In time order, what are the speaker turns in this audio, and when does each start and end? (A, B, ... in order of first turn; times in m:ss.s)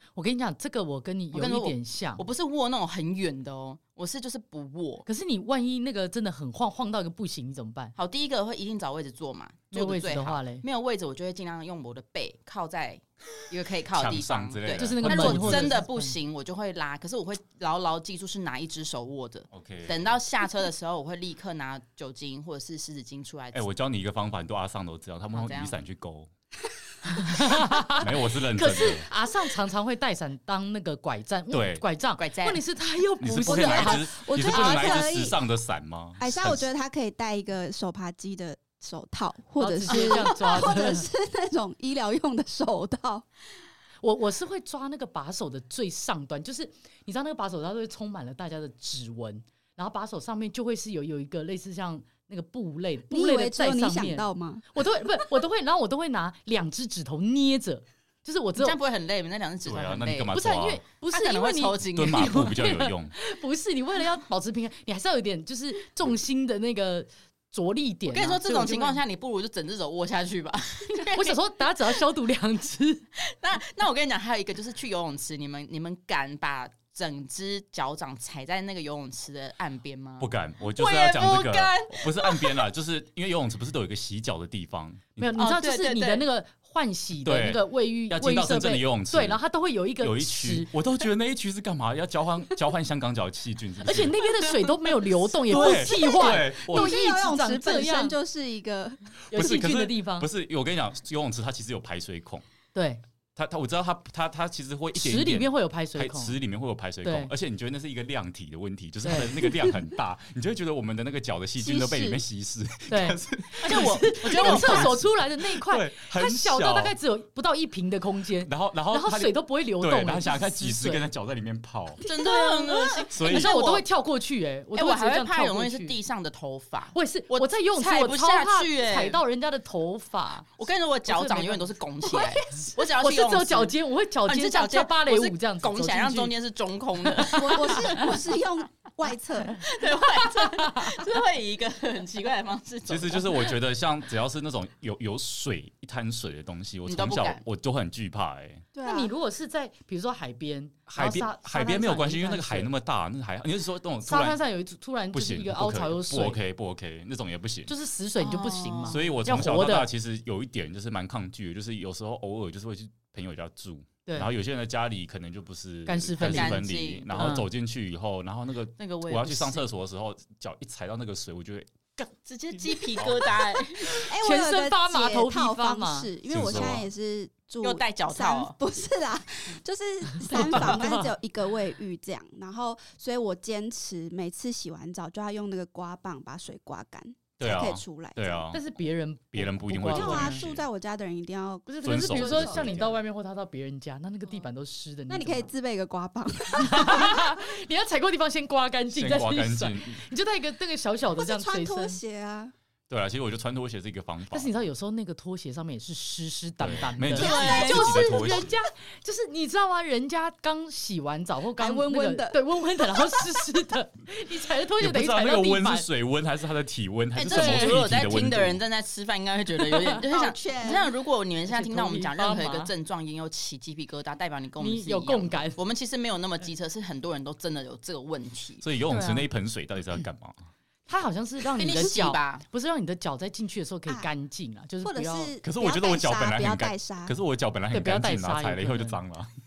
0:00.1-0:02.2 A
0:01.3-0:05.0 B
0:05.0-0:07.9 A
0:08.0-0:23.6 B
0:09.7-0:10.6 A
0:13.9-0:15.8 C
0:14.8-0:16.1 A
0:19.5-0:20.1 C
0:23.5-0:26.3 C
0:25.3-0:25.8 B
0:27.0-0:35.0 A
0:28.0-0:29.1 C
0:31.5-0:31.8 C
0:32.2-0:32.6 B
0:33.2-0:36.6 C
0:33.5-0:35.4 D
0:36.2-0:43.2 D
0:39.6-0:41.1 A
0:44.0-0:58.8 A
0:53.1-0:54.6 D
0:58.6-1:00.4 B
0:59.6-1:00.8 C
1:00.3-1:09.0 A
1:01.1-1:02.6 B
1:01.9-1:03.1 C
1:08.1-1:11.4 B
1:11.1-1:13.0 A
1:13.2-1:22.6 B
1:20.2-1:25.3 C
1:25.2-1:30.7 A
1:25.4-1:26.2 B
1:27.2-1:29.4 C
1:30.0-1:34.2 C
1:33.8-1:38.2 A
1:35.4-1:36.9 C
1:35.6-1:39.1 D
1:39.3-1:42.4 C
1:39.3-1:40.3 A
1:42.7-1:43.0 A
1:43.4-1:57.0 C
1:44.9-1:46.3 A
1:47.0-1:47.3 A
1:49.0-1:49.5 A
1:51.6-1:52.2 D
1:52.9-2:01.0 A
1:53.6-1:55.0 B
1:58.4-2:02.0 C
2:02.0-2:03.8 B
2:02.2-2:02.7 D
2:03.0-2:06.0 A
2:03.1-2:03.6 C
2:04.7-2:09.2 B
2:06.9-2:10.5 A
2:10.5-2:13.7 B
2:11.0-2:16.3 A
2:14.2-2:18.2 B
2:17.0-2:18.2 A
2:17.3-2:19.6 D
2:19.6-2:23.5 B
2:20.3-2:21.0 A
2:22.9-2:28.6 C
2:26.8-2:27.4 B
2:28.7-2:29.1 D
2:28.8-2:32.7 A
2:30.9-2:34.4 C
2:34.0-2:36.4 A
2:35.1-2:37.7 C
2:37.7-2:39.9 A
2:38.2-2:39.2 B
2:38.8-2:52.1 C
2:44.0-2:44.3 A
2:45.8-2:46.6 A
2:46.2-2:47.3 B
2:47.2-2:47.5 A
2:48.8-2:49.7 B
2:52.2-2:54.0 B
2:52.7-2:53.3 C
2:53.9-2:56.1 A
2:54.0-3:08.4 D
2:56.3-2:56.9 C
2:57.6-2:58.5 B
3:00.1-3:01.1 A
3:07.4-3:08.6 C
3:08.5-3:10.5 A
3:09.3-3:10.6 C
3:09.9-3:12.8 D
3:11.7-3:15.5 A
3:11.8-3:13.0 C
3:15.1-3:17.4 D
3:16.6-3:22.0 A
3:18.9-3:20.0 C
3:21.2-3:22.5 D
3:22.9-3:24.7 C
3:24.3-3:35.8 A
3:26.6-3:28.6 C
3:27.2-3:28.0 B
3:27.2-3:27.6 D
3:31.6-3:33.4 D
3:34.8-3:38.6 C
3:37.2-3:48.6 B
3:37.2-3:37.8 A
3:39.7-3:40.0 A
3:40.0-3:40.9 D
3:41.5-3:42.7 A
3:44.6-3:45.6 A
3:48.6-3:50.4 C
3:48.9-3:49.3 A
3:50.9-3:55.3 A
3:51.6-3:52.4 B
3:54.8-3:57.2 D
3:55.4-3:59.3 C
3:57.7-3:59.0 A